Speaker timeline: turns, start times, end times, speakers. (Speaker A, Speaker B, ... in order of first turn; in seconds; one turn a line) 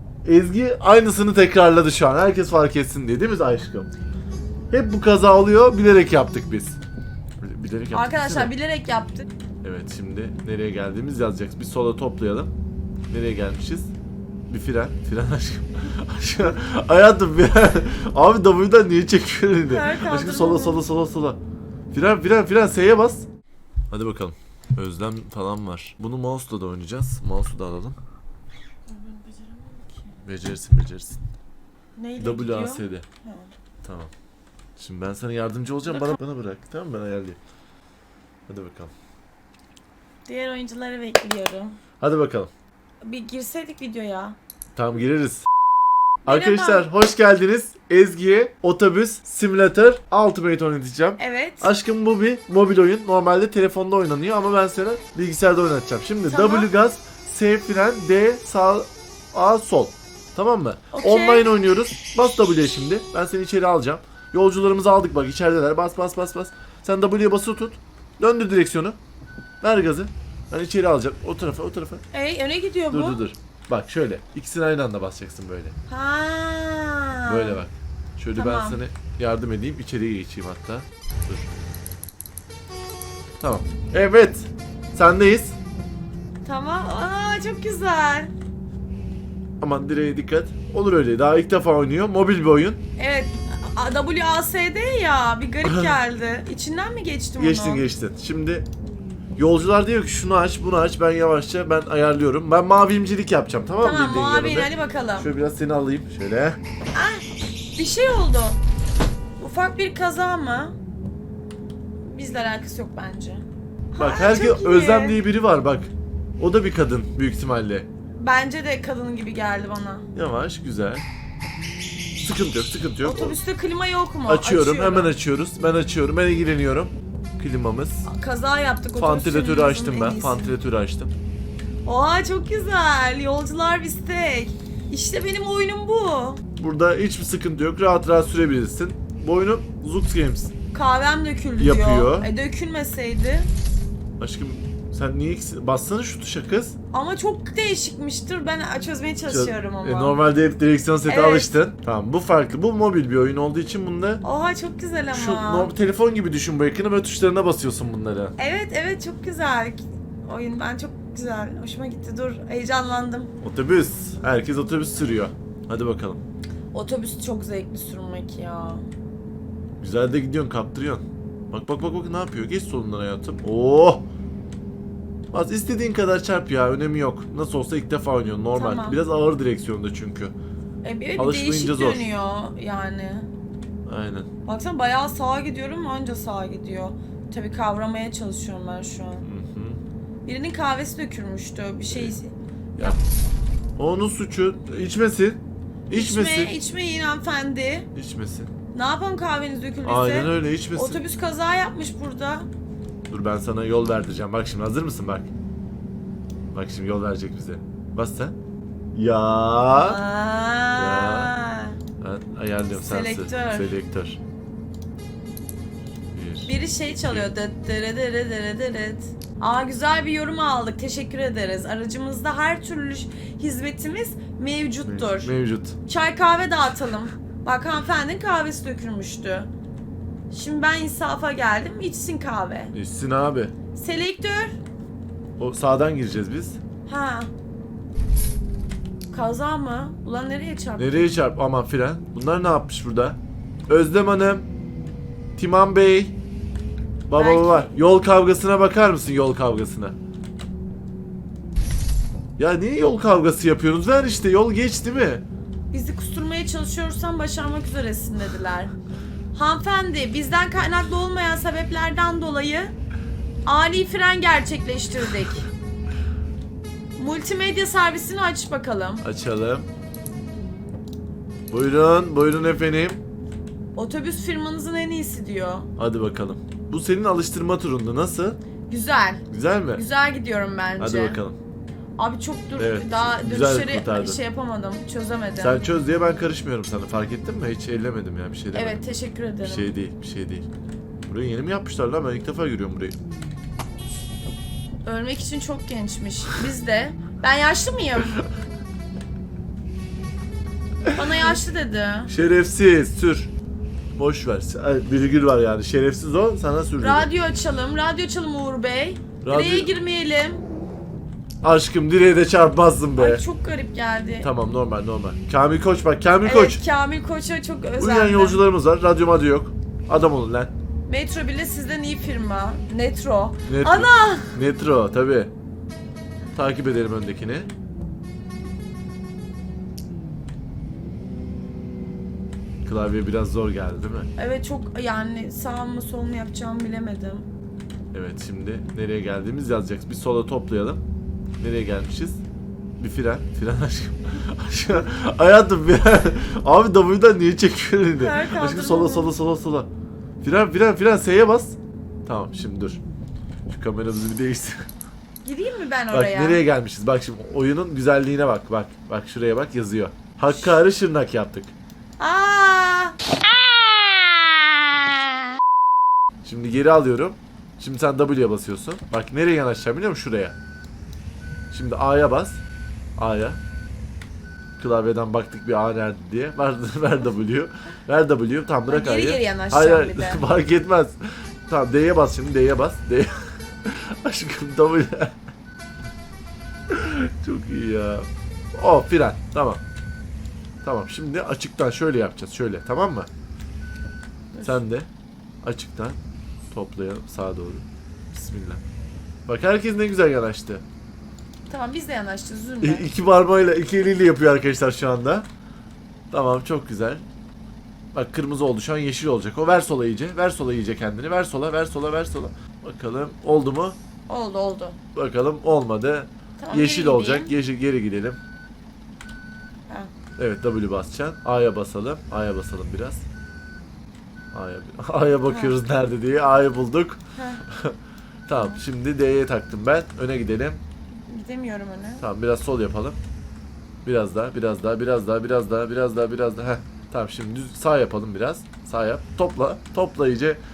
Speaker A: 0.2-3.9
Speaker A: 4.7-6.8
Speaker A: 7.4-8.5
Speaker B: 7.9-9.3
Speaker A: 9.6-12.5
Speaker A: 13.1-13.9
Speaker A: 14.5-21.4
Speaker B: 19.7-20.8
Speaker A: 21.9-23.3
Speaker A: 23.9-28.0
Speaker B: 28.9-30.2
Speaker A: 30.2-31.2
Speaker B: 32.0-33.5
Speaker A: 32.2-33.0
Speaker A: 33.8-34.1
Speaker A: 34.8-37.4
Speaker B: 35.9-36.2
Speaker A: 38.5-38.9
Speaker B: 40.3-41.8
Speaker A: 42.0-42.5
Speaker B: 43.0-44.4
Speaker A: 44.8-45.5
Speaker A: 46.3-69.0
Speaker B: 46.3-46.9
Speaker B: 51.2-51.7
Speaker B: 56.3-56.7
Speaker B: 60.9-61.5
Speaker A: 69.6-72.0
Speaker B: 72.1-73.2
Speaker A: 72.9-75.8
Speaker B: 75.9-77.6
Speaker A: 77.3-81.7
Speaker B: 78.4-78.8
Speaker A: 83.4-85.6
Speaker B: 86.5-88.3
Speaker A: 89.6-92.8
Speaker B: 93.0-97.9
Speaker A: 97.4-98.7
Speaker A: 99.4-106.6
Speaker B: 103.8-105.3
Speaker B: 106.9-108.6
Speaker B: 109.4-110.8
Speaker B: 112.0-115.2
Speaker A: 114.0-117.9
Speaker B: 118.2-120.1
Speaker A: 120.1-121.0
Speaker A: 122.2-123.4
Speaker B: 123.0-125.2
Speaker A: 124.3-128.1
Speaker B: 128.1-130.5
Speaker A: 129.0-131.1
Speaker B: 131.8-136.4
Speaker A: 136.6-140.5
Speaker B: 140.7-143.5
Speaker A: 141.6-142.3
Speaker A: 144.2-146.8
Speaker B: 146.9-150.2
Speaker A: 149.3-154.2
Speaker B: 151.1-151.5
Speaker B: 154.2-155.7
Speaker A: 155.1-158.3
Speaker B: 158.4-163.3
Speaker A: 163.4-166.2
Speaker B: 166.7-168.9
Speaker A: 169.8-174.1
Speaker A: 175.3-180.3
Speaker B: 178.6-179.0
Speaker B: 180.8-183.3
Speaker A: 181.2-182.1
Speaker A: 183.9-184.3
Speaker B: 184.5-189.3
Speaker A: 189.2-189.8
Speaker B: 190.2-193.0
Speaker A: 193.8-196.5
Speaker B: 195.9-197.9
Speaker A: 197.9-198.5
Speaker B: 198.7-202.5
Speaker A: 199.8-201.0
Speaker A: 203.1-205.3
Speaker A: 206.5-208.3
Speaker A: 208.9-210.0
Speaker B: 209.8-211.8
Speaker A: 210.8-211.3
Speaker A: 212.0-214.2
Speaker B: 212.7-213.7
Speaker A: 216.1-217.3
Speaker B: 216.5-225.3
Speaker A: 224.9-225.8
Speaker B: 225.9-229.5
Speaker B: 230.3-232.7
Speaker A: 232.7-233.5
Speaker B: 233.8-234.6
Speaker A: 235.4-236.6
Speaker B: 236.9-237.3
Speaker B: 239.1-241.1
Speaker A: 240.8-243.2
Speaker A: 243.7-244.5
Speaker A: 245.4-246.1
Speaker A: 247.1-250.0
Speaker B: 247.2-247.8
Speaker A: 252.4-255.2
Speaker B: 255.7-258.7
Speaker B: 259.3-262.7
Speaker B: 263.4-265.5
Speaker B: 267.0-269.1
Speaker A: 269.0-269.7
Speaker A: 271.5-273.0
Speaker B: 273.8-275.7
Speaker A: 275.8-278.4
Speaker B: 278.7-281.2
Speaker A: 279.3-279.8
Speaker A: 280.8-281.4
Speaker B: 282.0-285.7
Speaker A: 282.6-284.2
Speaker A: 285.4-288.8
Speaker B: 288.5-289.7
Speaker A: 289.4-290.5
Speaker A: 291.1-293.0
Speaker B: 294.8-298.2
Speaker B: 300.9-302.1
Speaker A: 302.1-303.3
Speaker A: 304.0-307.1
Speaker B: 306.8-310.4
Speaker A: 309.2-309.7
Speaker A: 311.4-313.2
Speaker B: 313.0-314.3
Speaker A: 314.2-316.6
Speaker B: 316.2-318.4
Speaker A: 317.8-320.5
Speaker B: 320.9-324.4
Speaker A: 323.5-325.3
Speaker A: 326.4-327.5
Speaker A: 332.6-334.1
Speaker B: 334.2-337.3
Speaker A: 337.9-340.8
Speaker A: 341.4-342.2
Speaker A: 342.8-349.7
Speaker B: 348.0-349.1
Speaker A: 350.2-352.8
Speaker A: 353.5-354.7
Speaker B: 355.2-356.4
Speaker A: 355.9-361.5
Speaker B: 362.0-363.0
Speaker A: 366.2-370.4
Speaker A: 371.5-372.4
Speaker A: 373.0-373.4
Speaker A: 374.6-385.1
Speaker B: 378.7-380.3
Speaker A: 386.7-389.6
Speaker A: 390.6-393.1
Speaker A: 394.4-394.9
Speaker A: 395.4-396.0
Speaker A: 396.5-398.6
Speaker A: 399.3-400.6
Speaker B: 401.5-402.9
Speaker A: 402.6-405.3
Speaker A: 406.1-407.0
Speaker A: 407.9-413.8
Speaker B: 414.1-414.8
Speaker A: 414.9-418.2
Speaker B: 416.4-417.3
Speaker A: 420.2-423.1
Speaker A: 424.3-427.8
Speaker B: 425.2-425.6
Speaker B: 427.1-427.4
Speaker A: 428.3-430.6
Speaker B: 428.3-428.6
Speaker B: 430.9-432.1
Speaker A: 432.0-433.0
Speaker A: 433.9-440.4